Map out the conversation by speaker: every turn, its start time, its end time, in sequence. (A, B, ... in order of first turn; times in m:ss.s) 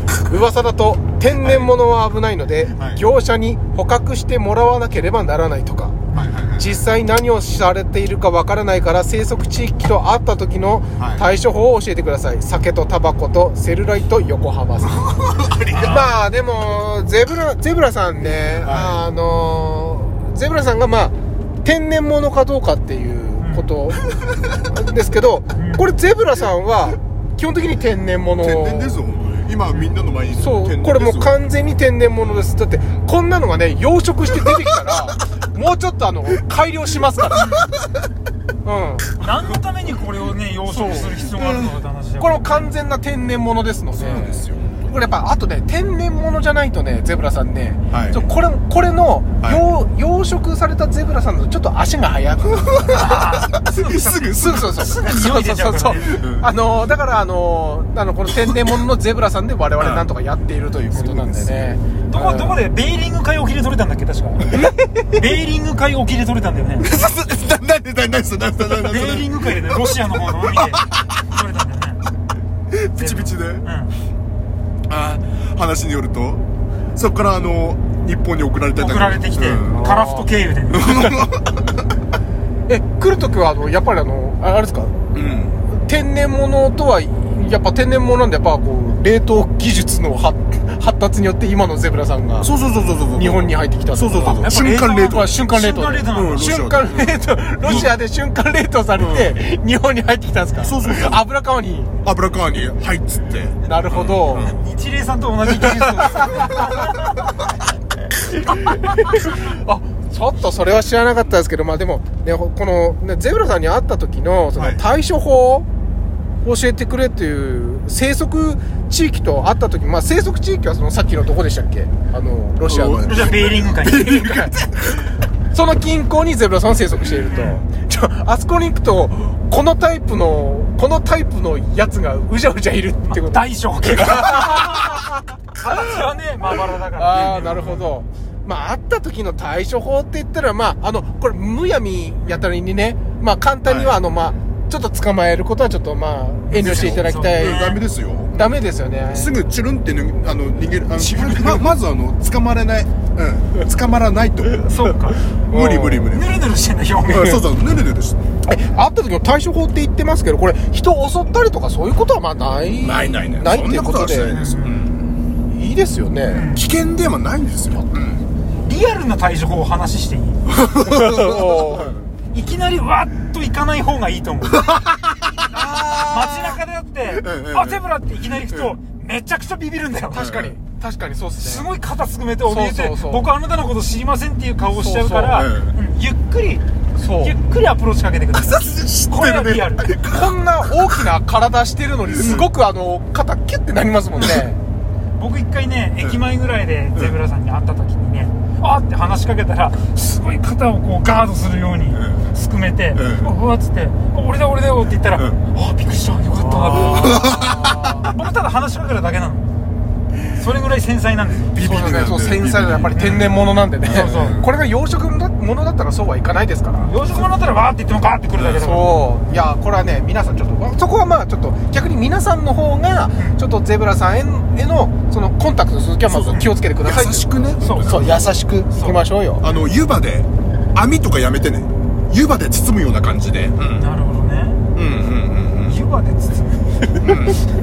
0:00.3-0:06.0 A
0:01.4-0:01.7 B
0:06.1-0:06.4 C
0:06.1-0:06.8 B
0:06.6-0:21.1 A
0:15.0-0:16.0 B
0:15.7-0:16.1 C
0:18.6-0:19.0 B
0:21.6-0:24.0 A
0:23.4-0:23.7 C
0:24.6-0:29.0 A
0:25.6-0:25.9 C
0:28.4-0:31.3 B
0:30.4-0:37.6 A
0:37.4-0:37.7 C
0:38.6-0:39.2 A
0:39.2-0:42.7 C
0:40.7-0:41.3 A
0:41.4-0:41.7 B
0:42.2-0:53.2 A
0:44.0-0:44.9 B
0:47.9-0:48.2 B
0:52.5-0:54.9 B
0:52.9-0:56.1 C
0:54.4-1:02.6 A
0:56.0-0:56.5 B
0:59.8-1:00.0 B
1:00.9-1:01.7 B
1:02.1-1:06.9 C
1:06.8-1:11.0 B
1:08.7-1:12.0 C
1:12.7-1:13.6 B
1:13.0-1:13.9 C
1:14.9-1:19.8 B
1:18.8-1:21.0 C
1:19.7-1:20.3 A
1:20.7-1:21.6 B
1:22.7-1:25.0 A
1:25.1-1:25.6 B
1:25.7-1:32.5 A
1:32.4-1:35.4 B
1:33.1-1:41.9 A
1:34.2-1:36.5 C
1:36.1-1:37.9 B
1:39.0-1:39.3 B
1:40.6-1:41.2 B
1:42.0-1:44.6 B
1:43.6-1:44.5 A
1:44.4-1:46.9 C
1:46.1-1:46.9 A
1:48.3-1:55.7 A
1:56.4-2:03.3 A
2:02.7-2:05.0 B
2:03.0-2:04.6 C
2:05.5-2:15.1 A
2:07.3-2:07.6 C
2:13.1-2:17.9 C
2:16.9-2:27.7 A
2:23.7-2:24.0 B
2:26.5-2:27.8 C
2:26.6-2:28.4 B
2:28.3-2:29.4 A
2:29.1-2:34.7 B
2:31.0-2:31.7 C
2:34.6-2:35.2 C
2:35.5-2:36.2 A
2:35.5-2:36.4 B
2:36.1-2:37.4 C
2:37.0-2:38.2 B
2:38.4-2:44.4 A
2:42.8-2:45.2 B
2:44.3-2:44.9 C
2:45.5-2:46.5 A
2:46.3-2:46.7 C
2:46.5-2:48.2 B
2:48.6-2:50.4 C
2:50.5-2:52.0 B
2:50.9-2:51.9 A
2:52.3-2:54.7 C
2:54.6-2:56.6 B
2:55.5-3:00.3 C
2:57.1-2:58.8 B
3:00.1-3:00.5 B
3:00.1-3:01.7 A
3:01.4-3:06.6 C
3:02.4-3:03.2 A
3:04.6-3:05.4 A
3:05.3-3:05.8 B
3:07.0-3:07.4 A
3:07.2-3:10.0 C
3:08.3-3:11.0 B
3:10.0-3:14.6 A
3:12.1-3:12.4 B
3:15.2-3:29.5 C
3:21.9-3:22.3 B
3:23.0-3:23.4 B
3:26.5-3:28.0 A
3:26.7-3:28.0 B
3:30.4-3:31.6 C
3:31.5-3:34.5 B
3:31.6-3:37.0 A
3:32.9-3:33.3 C
3:33.9-3:34.4 C
3:36.8-3:39.1 C
3:38.4-3:38.6 B
3:38.6-3:49.4 A
3:46.1-3:46.5 C
3:46.8-3:48.4 B
3:47.6-3:49.0 C
3:49.4-3:53.9 B
3:53.7-3:54.6 C
3:54.8-3:55.8 B
3:55.6-3:56.7 C
3:57.0-3:57.4 B